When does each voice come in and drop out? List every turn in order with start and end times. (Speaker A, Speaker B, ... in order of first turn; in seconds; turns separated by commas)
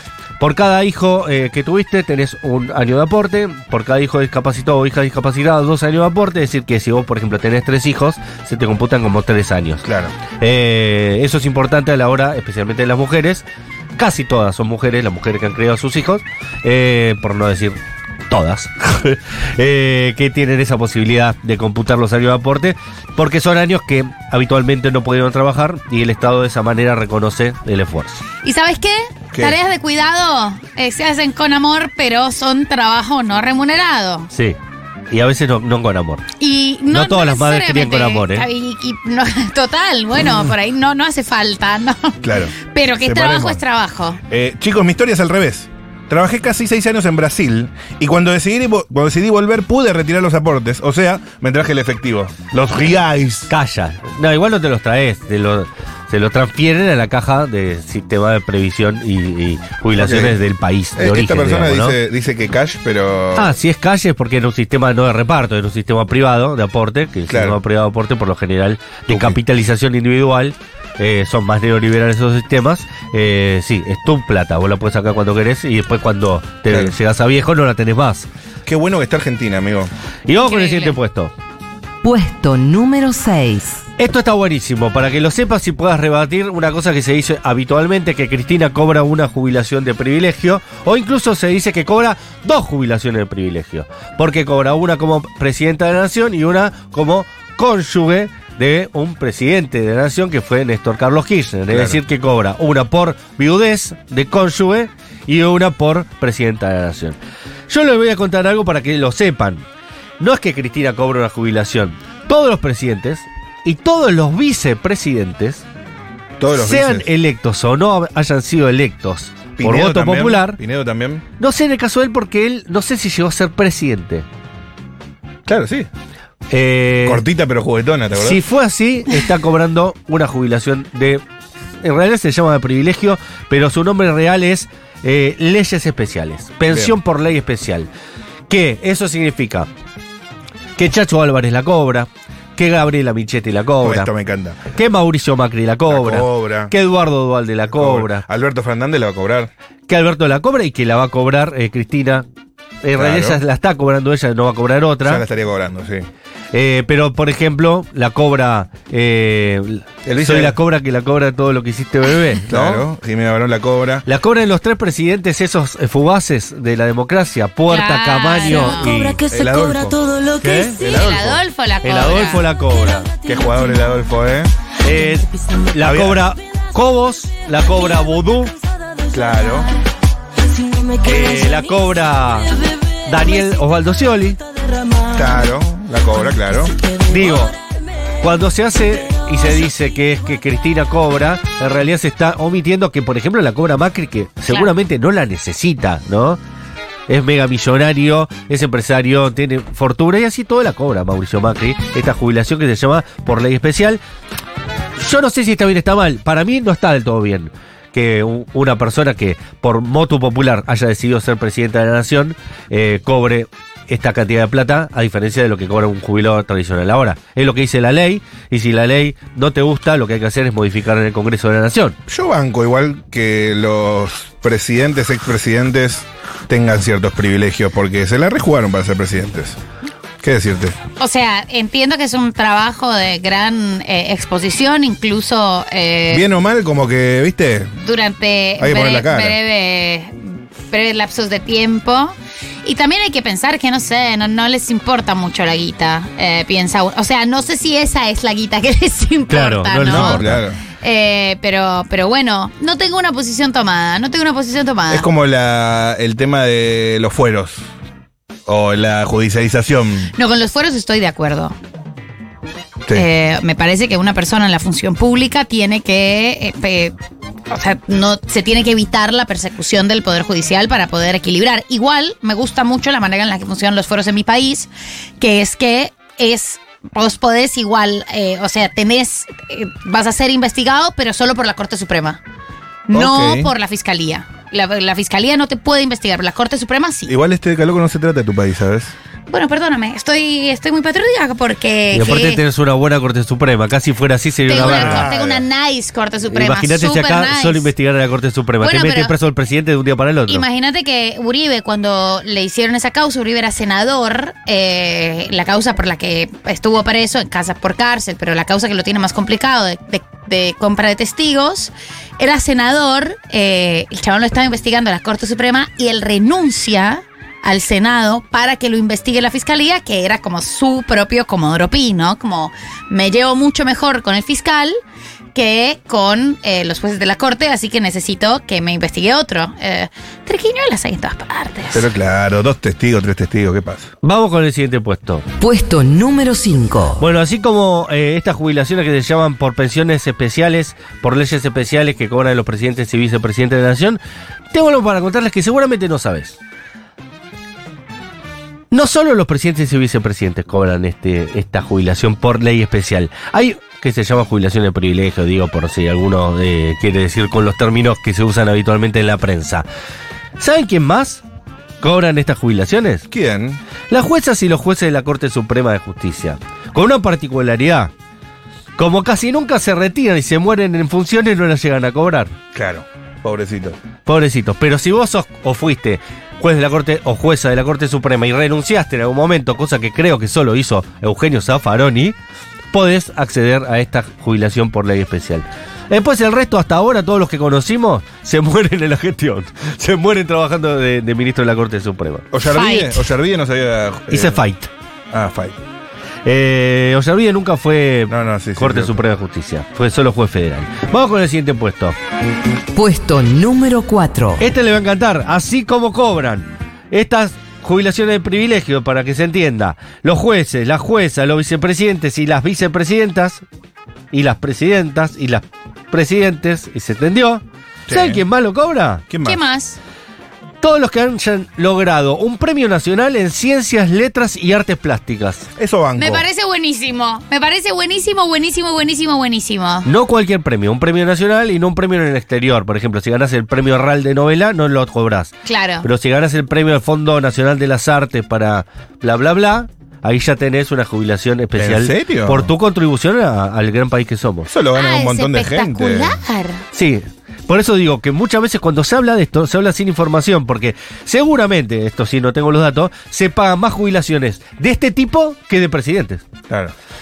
Speaker A: 0.4-9.8, Speaker B: 9.8-10.1, Speaker A: 10.4-13.4, Speaker A: 14.0-17.8, Speaker A: 18.3-28.2, Speaker C: 28.4-34.3, Speaker A: 35.1-36.2, Speaker C: 36.4-44.2, Speaker A: 36.9-38.5, Speaker B: 42.2-43.6, Speaker B: 44.3-53.5, Speaker A: 53.5-62.0, Speaker B: 60.0-60.4, Speaker B: 61.0-63.5, Speaker A: 63.4-78.3, Speaker B: 67.3-67.6, Speaker B: 69.1-69.4, Speaker B: 76.7-76.9, Speaker B: 78.7-79.9, Speaker A: 80.3-81.3, Speaker C: 80.4-81.0, Speaker D: 82.0-83.8, Speaker A: 84.0-107.2, Speaker B: 101.7-102.0, Speaker A: 107.7-109.6, Speaker A: 110.2-115.6, Speaker B: 116.4-117.1, Speaker A: 116.5-120.6, Speaker B: 119.6-121.2, Speaker A: 121.4-124.2, Speaker B: 125.5-125.9, Speaker A: 126.5-127.2, Speaker B: 127.0-128.4, Speaker A: 128.1-131.2, Speaker A: 131.8-137.9, Speaker B: 136.7-136.9, Speaker A: 138.5-139.7, Speaker A: 140.8-144.1, Speaker B: 143.8-144.7, Speaker A: 144.7-148.2, Speaker B: 145.9-146.7, Speaker B: 147.7-149.5, Speaker A: 149.9-152.2, Speaker A: 152.8-155.2, Speaker B: 152.9-153.4, Speaker B: 155.0-156.1, Speaker A: 156.5-162.8, Speaker B: 160.1-160.6, Speaker B: 162.5-164.1, Speaker A: 164.1-169.3, Speaker C: 167.7-168.9, Speaker B: 169.2-171.4, Speaker A: 170.2-170.9, Speaker C: 170.8-172.4, Speaker A: 171.8-173.1, Speaker B: 173.2-174.5, Speaker A: 174.8-178.5, Speaker B: 175.8-176.2, Speaker B: 179.1-179.7, Speaker A: 180.9-184.4, Speaker B: 185.1-186.8, Speaker A: 186.9-187.6, Speaker A: 188.2-196.4, Speaker A: 197.1-204.0, Speaker A: 205.0-221.9, Speaker B: 222.1-229.6, Speaker B: 230.2-230.8, Speaker C: 231.0-236.2, Speaker B: 236.1-237.8, Speaker C: 237.8-250.3, Speaker B: 238.6-239.4, Speaker A: 249.3-250.4, Speaker B: 249.8-250.6, Speaker C: 250.8-255.1, Speaker B: 254.9-257.7, Speaker B: 258.4-260.1, Speaker C: 260.1-261.5, Speaker C: 262.9-266.9, Speaker C: 267.5-282.2, Speaker C: 282.9-287.1, Speaker B: 282.9-283.5, Speaker B: 287.1-288.9, Speaker C: 289.3-292.4, Speaker A: 291.9-295.1, Speaker C: 294.5-297.7, Speaker B: 294.5-295.4, Speaker A: 296.3-300.4, Speaker C: 298.6-299.1, Speaker C: 300.3-324.8, Speaker C: 325.3-331.9, Speaker B: 331.7-333.9, Speaker A: 334.0-335.2, Speaker D: 335.4-337.0, Speaker A: 337.0-344.0, Speaker A: 344.5-346.4, Speaker A: 348.7-359.6, Speaker A: 360.4-361.2, Speaker A: 361.8-363.0, Speaker B: 363.1-363.6, Speaker A: 363.9-367.9, Speaker A: 368.8-372.3, Speaker B: 372.5-373.8, Speaker A: 374.1-382.1, Speaker A: 382.7-392.2, Speaker B: 392.3-394.4, Speaker C: 392.4-393.1, Speaker A: 394.1-394.7, Speaker B: 395.1-395.6, Speaker A: 396.2-401.9, Speaker B: 398.1-399.0, Speaker D: 402.7-404.5, Speaker A: 404.4-413.4, Speaker A: 414.1-419.0, Speaker B: 417.9-418.2, Speaker B: 419.1-419.4, Speaker C: 419.2-419.8, Speaker A: 420.6-425.5, Speaker B: 425.6-426.2, Speaker C: 426.0-429.9, Speaker A: 429.8-444.5, Speaker C: 435.4-435.9, Speaker B: 441.6-442.5, Speaker B: 444.5-446.2, Speaker C: 444.7-446.6, Speaker A: 446.7-456.2, Speaker B: 456.5-456.7